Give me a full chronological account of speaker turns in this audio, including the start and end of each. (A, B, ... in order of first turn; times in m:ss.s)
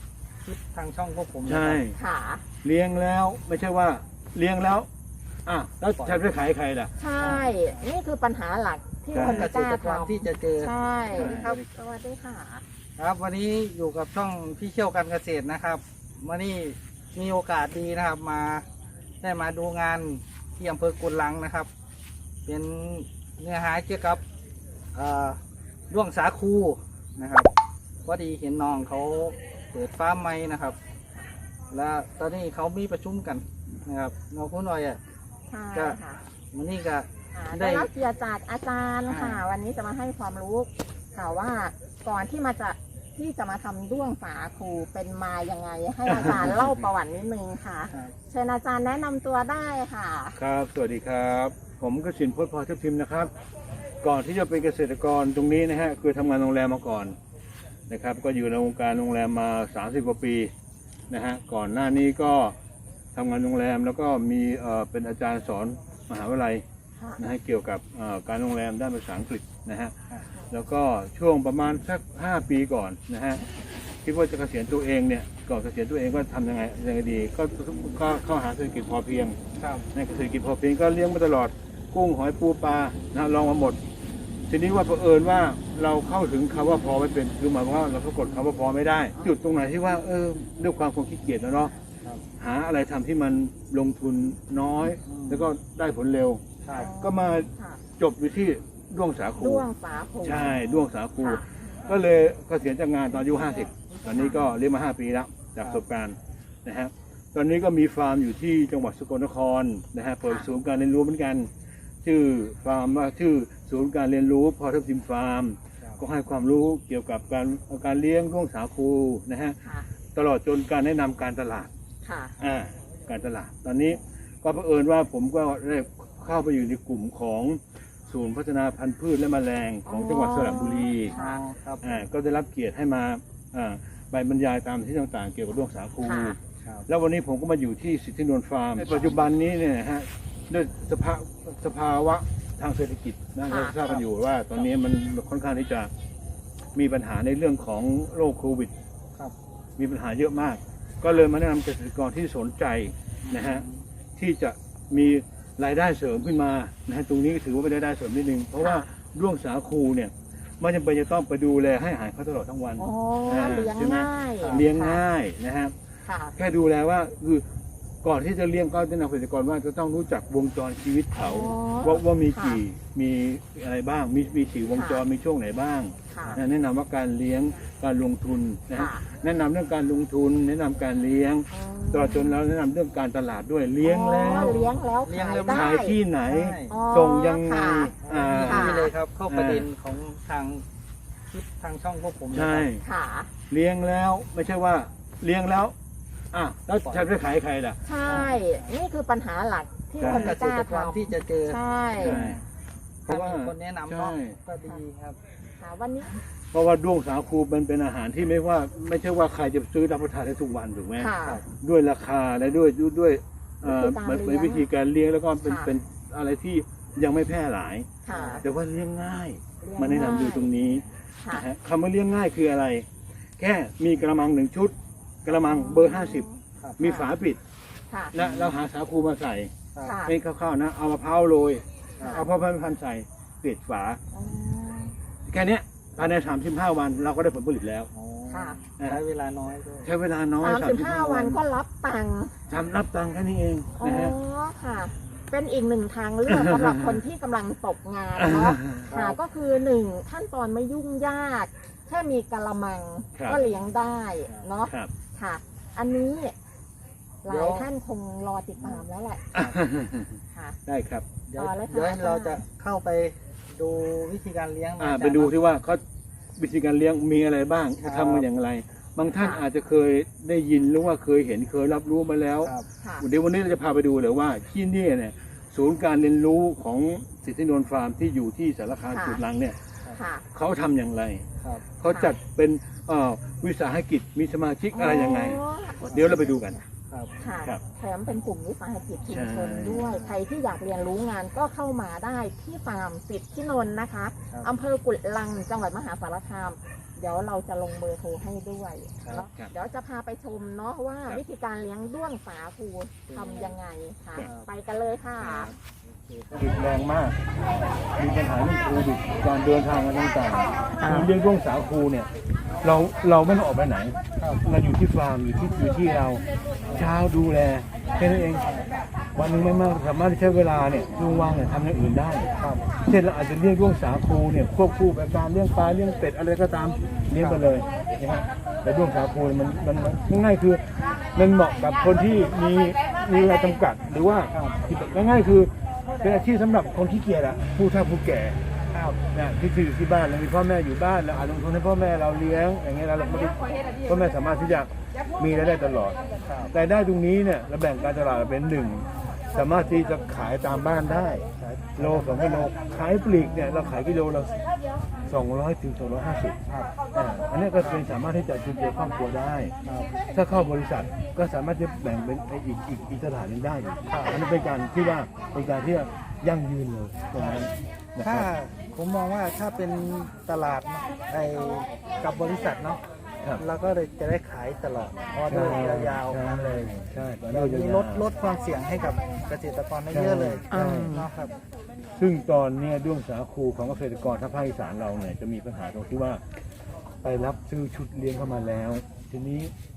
0:00.4-0:01.8 A
0:01.4-0:02.0 B
0:02.0-0:02.4 C
0:02.6-0:04.9 B
0:05.4-0:06.9 B
0:06.0-0:06.3 A
0:07.0-0:12.6 C
0:07.2-0:07.6 A
0:09.1-0:09.5 B
0:09.1-0:11.6 A
0:11.1-0:11.6 B
0:13.0-0:18.7 A
0:19.2-0:21.7 A
0:22.5-0:24.2 A
0:24.9-0:27.5 A
0:28.0-0:30.8 A
0:31.7-0:35.0 A
0:35.5-0:36.2 C
0:35.7-0:36.0 A
0:36.5-0:37.9 A
0:37.3-0:50.4 C
0:39.1-0:39.4 A
0:46.0-0:46.9 B
0:50.4-0:53.3 B
0:54.0-0:57.2 B
0:57.9-1:00.5 B
1:01.1-1:02.6 B
1:03.1-1:06.6 B
1:07.2-1:10.0 B
1:10.5-1:13.4 B
1:14.0-1:19.4 B
1:19.6-1:19.9 A
1:19.9-1:23.8 B
1:24.5-1:31.7 B
1:32.4-1:36.4 B
1:35.0-1:35.5 A
1:36.6-1:36.9 A
1:36.7-1:37.8 C
1:37.0-1:39.7 B
1:39.4-1:40.6 C
1:40.2-1:51.5 B
1:41.2-1:41.5 C
1:44.1-1:44.5 C
1:50.2-1:50.5 C
1:52.0-1:59.6 B
1:59.6-1:59.9 C
2:00.1-2:01.7 B
2:02.0-2:02.3 C
2:02.4-2:11.1 B
2:09.9-2:11.4 C
2:11.1-2:12.0 A
2:11.8-2:25.9 B
2:16.0-2:16.4 C
2:18.8-2:19.2 A
2:23.5-2:23.8 C
2:26.8-2:28.7 B
2:29.8-2:33.6 B
2:33.2-2:33.8 A
2:34.2-2:45.7 B
2:38.6-2:38.8 C
2:42.8-2:45.0 C
2:46.0-2:46.3 C
2:46.3-2:47.4 B
2:48.0-3:04.6 B
2:51.2-2:52.6 C
2:54.8-2:55.0 C
2:56.1-2:56.4 C
2:58.7-2:59.1 C
3:01.5-3:02.4 C
3:03.8-3:06.0 C
3:04.2-3:05.7 A
3:05.5-3:09.7 B
3:06.2-3:06.7 A
3:06.7-3:08.9 C
3:08.0-3:10.6 A
3:11.3-3:12.7 A
3:12.3-3:12.8 B
3:12.8-3:13.3 C
3:13.5-3:15.8 B
3:16.3-3:18.3 B
3:17.8-3:22.2 C
3:18.1-3:18.7 A
3:20.0-3:20.4 B
3:20.0-3:22.4 A
3:22.0-3:22.4 B
3:23.1-3:24.4 B
3:23.1-3:25.2 A
3:25.6-3:26.2 C
3:26.5-3:42.9 B
3:31.0-3:31.4 C
3:33.6-3:34.7 C
3:35.4-3:35.7 C
3:38.0-3:38.4 C
3:38.1-3:38.4 A
3:39.6-3:40.5 C
3:43.4-3:46.3 B
3:45.4-3:47.1 C
3:46.8-3:47.4 B
3:48.1-3:49.5 B
3:48.2-3:48.5 A
3:49.8-3:50.2 C
3:50.1-3:54.0 B
3:52.0-3:52.3 C
3:54.1-3:54.9 C
3:55.3-3:57.9 B
3:57.9-3:59.9 A
3:58.3-3:58.6 C
3:59.8-4:01.4 B
4:00.4-4:02.4 C
4:02.5-4:04.2 B
4:03.8-4:16.3 C
4:06.2-4:07.0 B
4:08.2-4:08.9 B
4:08.9-4:09.2 A
4:17.2-4:19.6 C
4:17.3-4:17.7 A
4:19.3-4:21.1 B
4:20.3-4:20.6 C
4:21.3-4:25.3 A
4:21.4-4:22.4 C
4:24.8-4:25.8 B
4:26.3-4:39.6 B
4:27.8-4:28.3 A
4:29.1-4:29.4 C
4:32.8-4:33.0 C
4:38.9-4:39.2 C
4:39.9-4:40.2 C
4:40.3-4:41.3 B
4:41.4-4:41.6 A
4:41.8-4:46.6 B
4:41.8-4:42.2 C
4:44.7-4:46.6 C
4:47.2-5:05.5 C
4:49.1-4:50.0 B
4:59.0-4:59.3 A
4:59.1-4:59.5 B
5:03.1-5:03.6 A
5:04.2-5:04.5 A
5:05.2-5:06.5 A
5:06.3-5:07.2 B
5:08.0-5:12.1 B
5:10.8-5:11.1 C
5:12.6-5:16.2 B
5:14.2-5:14.5 A
5:16.7-5:18.4 B
5:19.2-5:22.3 B
5:22.4-5:22.7 A
5:22.8-5:38.4 B
5:27.2-5:27.4 A
5:34.3-5:34.6 A
5:38.7-5:39.0 A
5:39.1-5:46.0 B
5:46.2-5:46.5 A
5:46.5-5:51.2 B
5:51.4-5:52.5 A
5:51.8-5:54.3 B
5:55.1-5:56.4 B
5:56.5-5:56.7 A
5:56.9-5:59.5 B
5:59.6-5:59.9 A
6:00.1-6:08.3 B
6:03.9-6:04.2 A
6:07.1-6:12.8 A
6:13.4-6:21.3 A
6:15.3-6:18.1 B
6:19.9-6:21.0 B
6:20.5-6:21.1 C
6:22.0-6:26.2 B
6:27.0-6:29.5 B